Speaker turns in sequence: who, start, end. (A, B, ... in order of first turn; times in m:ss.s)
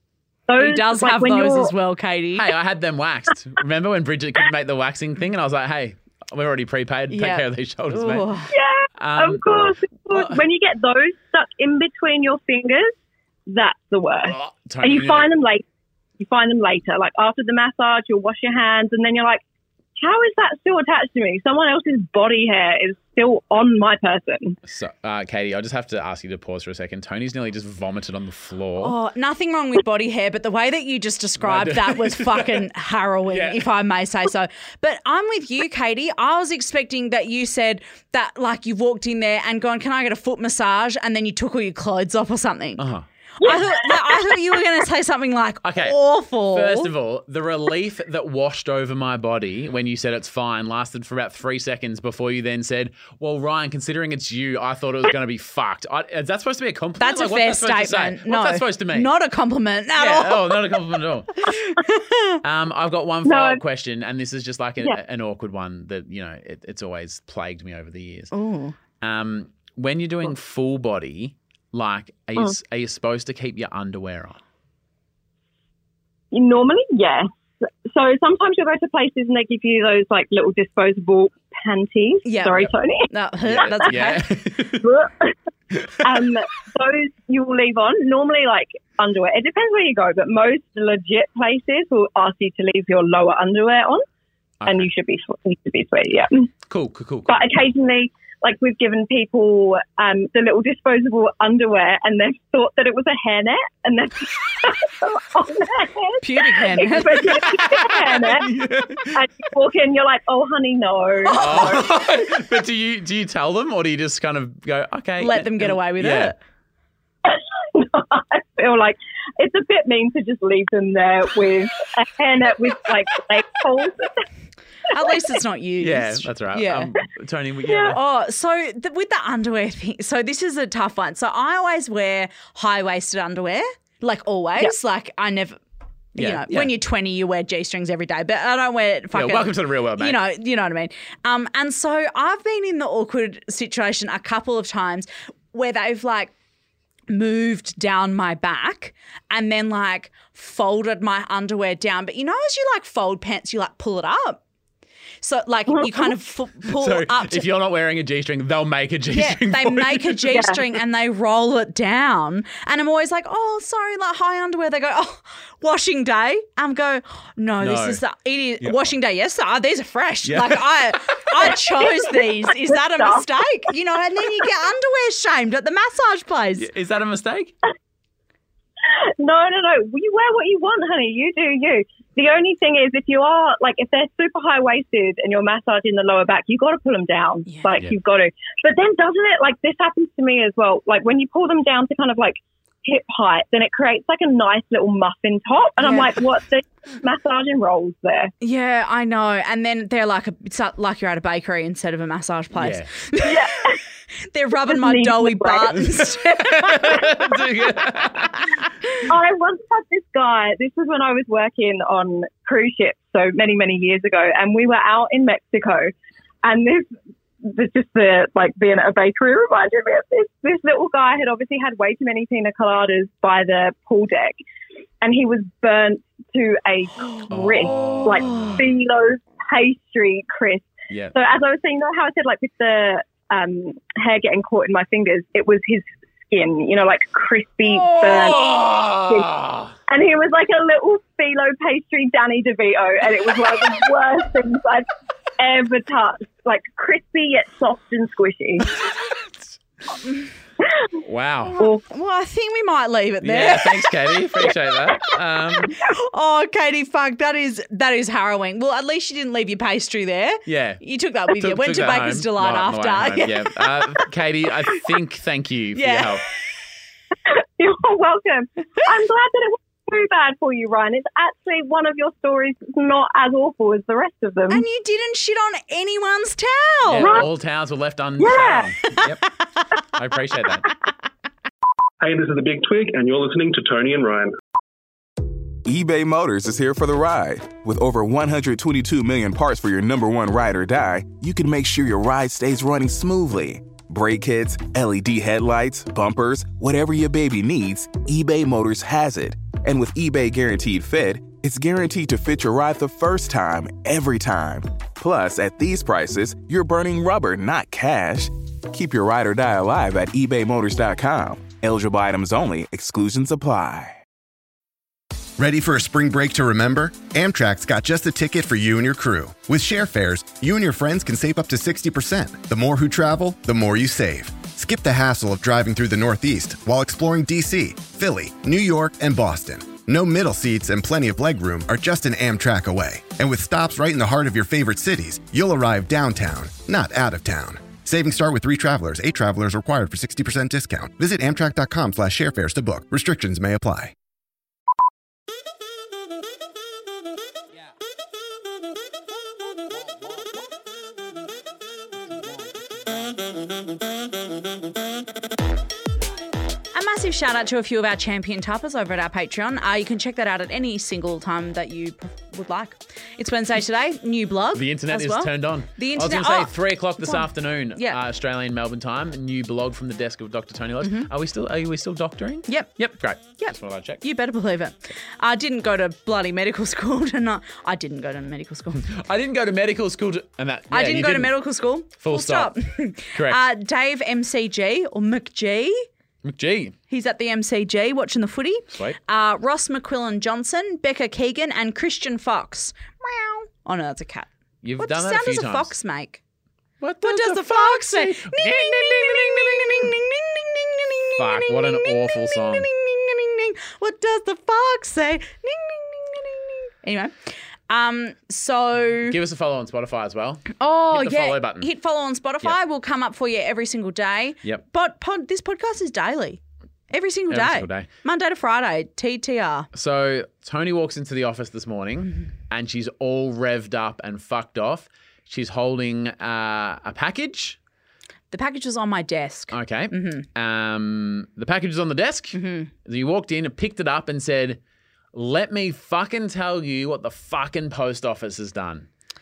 0:00.5-0:01.7 A
0:00.6-0:02.5 B
0:02.4-0:08.3 C
0:07.1-0:08.5 B
0:08.5-0:13.0 A
0:09.0-0:10.4 C
0:13.5-0:15.6 A
0:14.2-0:15.3 C
0:16.2-0:19.4 A
0:20.0-0:24.6 A
0:24.6-0:29.0 C
0:28.8-0:42.8 B
0:31.4-0:32.7 C
0:33.3-0:33.6 C
0:42.8-0:43.1 C
0:43.4-0:46.9 B
0:43.4-0:44.3 A
0:45.6-0:59.1 C
0:57.0-1:00.7 B
1:00.0-1:01.5 C
1:01.4-1:02.4 B
1:02.4-1:08.3 C
1:03.2-1:03.6 A
1:08.3-1:08.8 B
1:09.0-1:14.4 C
1:16.3-1:17.3 A
1:17.8-1:23.1 A
1:22.3-1:24.3 B
1:23.4-1:24.9 C
1:24.8-1:25.4 A
1:25.7-1:26.0 C
1:26.0-1:34.0 A
1:34.6-1:34.9 C
1:34.7-1:36.5 A
1:36.7-1:37.4 C
1:37.3-1:48.5 A
1:46.2-1:47.5 B
1:47.2-1:49.2 C
1:49.1-1:51.9 A
1:51.2-1:51.9 B
1:51.4-1:56.3 C
1:55.2-1:56.4 B
1:57.2-2:04.3 A
2:04.9-2:07.0 B
2:05.0-2:05.3 A
2:05.8-2:08.0 C
2:07.7-2:07.9 A
2:07.9-2:15.6 B
2:16.2-2:26.3 B
2:16.2-2:16.7 C
2:19.1-2:20.2 C
2:27.1-2:34.4 B
2:35.2-2:37.5 B
2:35.8-2:36.1 A
2:36.6-2:40.4 C
2:39.1-2:56.7 B
2:40.3-2:40.6 A
2:47.6-2:48.0 C
2:48.6-2:48.9 C
2:50.2-2:50.7 C
2:52.4-2:53.2 A
2:56.6-2:57.5 C
2:58.8-3:18.3 A
3:07.5-3:07.7 B
3:15.8-3:16.1 B
3:18.4-3:27.3 B
3:22.6-3:22.9 C
3:23.2-3:23.8 A
3:24.7-3:25.9 A
3:25.8-3:28.5 C
3:29.0-3:36.9 A
3:37.4-3:44.4 A
3:45.0-3:59.3 A
3:47.3-3:48.6 C
3:50.9-3:51.2 C
3:57.9-3:59.8 C
3:59.9-4:08.8 A
4:11.0-4:11.6 C
4:11.6-4:14.5 B
4:13.2-4:15.8 C
4:15.8-4:24.0 B
4:20.5-4:26.2 C
4:25.8-4:26.2 B
4:27.3-4:34.6 A
4:34.5-4:37.2 B
4:36.8-4:39.2 C
4:38.2-4:38.7 A
4:39.9-4:40.7 C
4:42.0-4:44.4 D
4:45.6-5:14.0 E
5:15.4-5:43.9 F
5:56.7-6:08.0 B
6:04.5-6:14.0 C
6:10.8-6:11.1 B
6:12.5-6:12.7 B
6:13.4-6:18.9 B
6:18.8-6:21.4 C
6:20.7-6:25.9 B
6:22.0-6:22.6 C
6:23.1-6:23.4 C
6:26.2-6:26.8 C
6:26.9-6:34.3 B
6:34.6-6:35.7 C
6:34.8-6:36.2 B
6:36.8-6:39.9 C
6:37.0-6:49.2 B
6:41.2-6:42.7 C
6:49.0-6:51.7 C
6:50.6-6:59.7 B
6:57.3-6:57.9 C
6:59.7-7:07.6 C
7:08.3-7:10.3 B
7:09.5-7:14.6 C
7:12.4-7:12.7 B
7:15.1-7:18.9 C